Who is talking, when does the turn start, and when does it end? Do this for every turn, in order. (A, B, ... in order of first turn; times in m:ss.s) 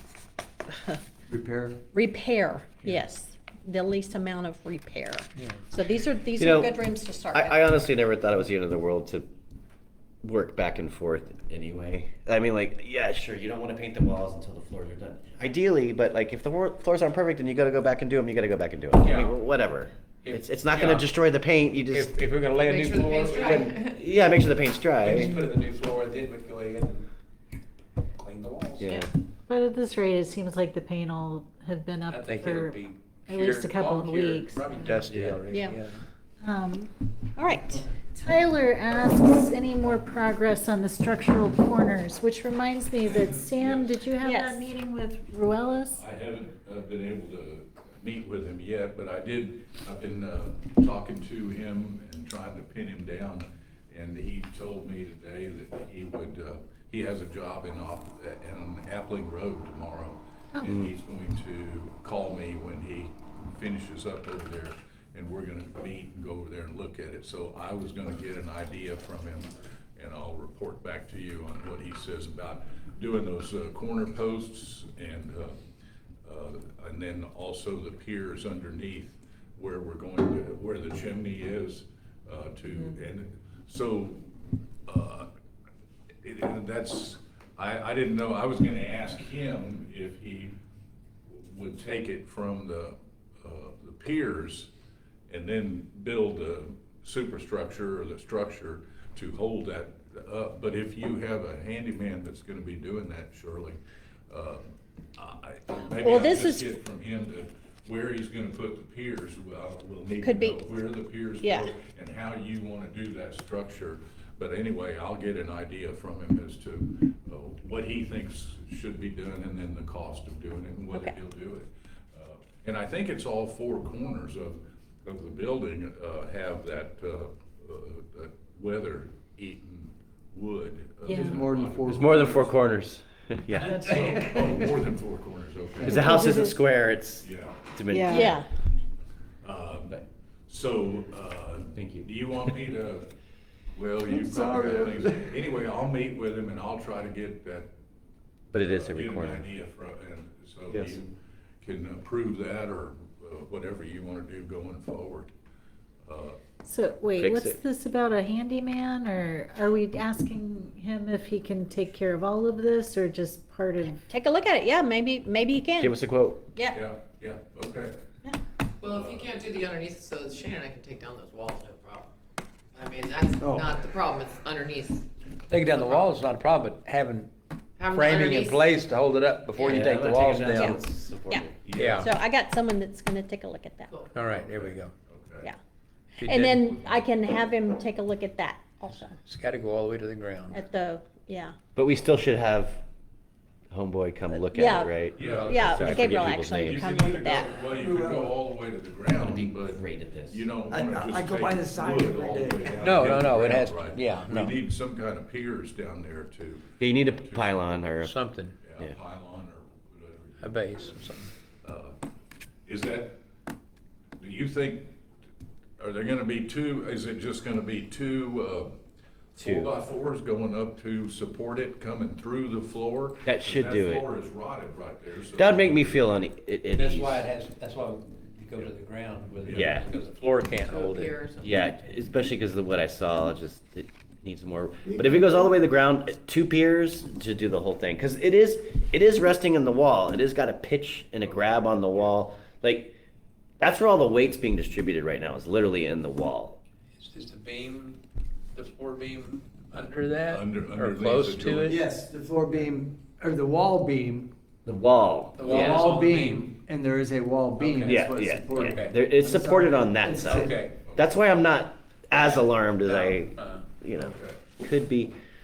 0:00.7-0:01.0 A
0:01.3-0:01.8 B
0:01.9-0:07.6 A
0:06.4-0:06.8 C
0:07.3-0:09.3 C
0:10.2-0:22.1 C
0:19.0-0:19.4 D
0:20.2-0:21.1 D
0:21.9-0:23.6 D
0:22.7-0:23.9 E
0:23.3-0:25.4 C
0:25.0-0:27.1 D
0:28.2-0:29.0 D
0:28.8-0:29.1 C
0:28.9-0:34.9 F
0:32.1-0:36.0 D
0:35.5-0:35.8 A
0:36.4-0:36.9 F
0:37.4-0:37.8 A
0:38.1-0:46.0 F
0:43.5-0:43.9 G
0:44.2-0:44.6 A
0:45.9-1:15.6 G
1:16.2-1:24.2 G
1:24.9-1:25.3 G
1:26.2-1:30.6 G
1:31.4-1:34.7 G
1:35.3-1:44.6 G
1:45.2-2:12.5 G
1:45.9-1:46.7 A
1:50.2-1:50.6 A
1:51.4-1:51.7 A
2:11.1-2:11.4 F
2:11.1-2:12.3 B
2:11.9-2:13.9 C
2:13.6-2:16.1 G
2:13.7-2:14.1 F
2:15.8-2:16.2 B
2:15.8-2:18.4 C
2:16.1-2:16.5 F
2:17.2-2:17.7 G
2:17.9-2:18.3 F
2:18.1-2:18.5 A
2:19.4-2:23.1 G
2:21.8-2:22.1 C
2:23.8-2:27.7 G
2:24.1-2:25.2 B
2:28.5-2:29.5 C
2:28.5-2:35.3 G
2:30.7-2:31.0 C
2:36.1-2:36.4 G
2:36.6-2:44.0 F
2:37.2-2:37.6 C
2:44.1-2:46.0 A
2:45.8-2:46.5 C
2:46.7-2:48.0 G
2:48.8-2:52.1 E
2:48.9-2:49.4 G
2:52.7-2:55.1 E
2:53.4-2:53.7 B
2:55.5-2:57.3 D
2:57.8-2:58.5 E
2:57.9-3:00.8 D
2:59.6-2:59.9 A
2:59.6-3:01.6 C
3:00.6-3:04.0 A
3:01.6-3:02.1 G
3:01.7-3:02.1 D
3:04.1-3:04.9 D
3:04.4-3:05.5 G
3:06.2-3:07.0 D
3:06.2-3:09.2 A
3:09.3-3:10.6 D
3:10.5-3:11.6 A
3:11.8-3:12.8 C
3:13.7-3:16.9 C
3:14.5-3:14.9 A
3:15.2-3:27.5 G
3:15.2-3:16.3 D
3:15.5-3:17.6 A
3:17.6-3:18.4 B
3:19.2-3:20.4 C
3:20.7-3:23.0 B
3:22.8-3:24.6 D
3:26.8-3:28.2 C
3:28.0-3:28.6 D
3:28.6-3:32.0 G
3:30.4-3:31.3 D
3:32.7-3:33.2 G
3:34.2-3:34.9 G
3:35.8-3:38.7 G
3:39.4-3:46.0 G
3:39.4-3:39.7 C
3:43.2-3:44.1 C
3:45.4-3:47.2 C
3:46.7-3:51.5 D
3:49.4-3:49.8 G
3:49.5-3:49.9 C
3:50.7-3:51.4 E
3:51.4-4:03.0 C
4:03.6-4:06.6 C
4:07.0-4:08.0 D
4:08.6-4:11.8 D
4:10.3-4:11.7 G
4:11.7-4:14.3 B
4:14.7-4:16.0 C
4:15.4-4:16.5 D
4:15.5-4:20.6 B
4:17.6-4:19.0 D
4:17.9-4:25.1 C
4:20.4-4:20.8 D
4:22.2-4:23.6 D
4:24.0-4:24.4 G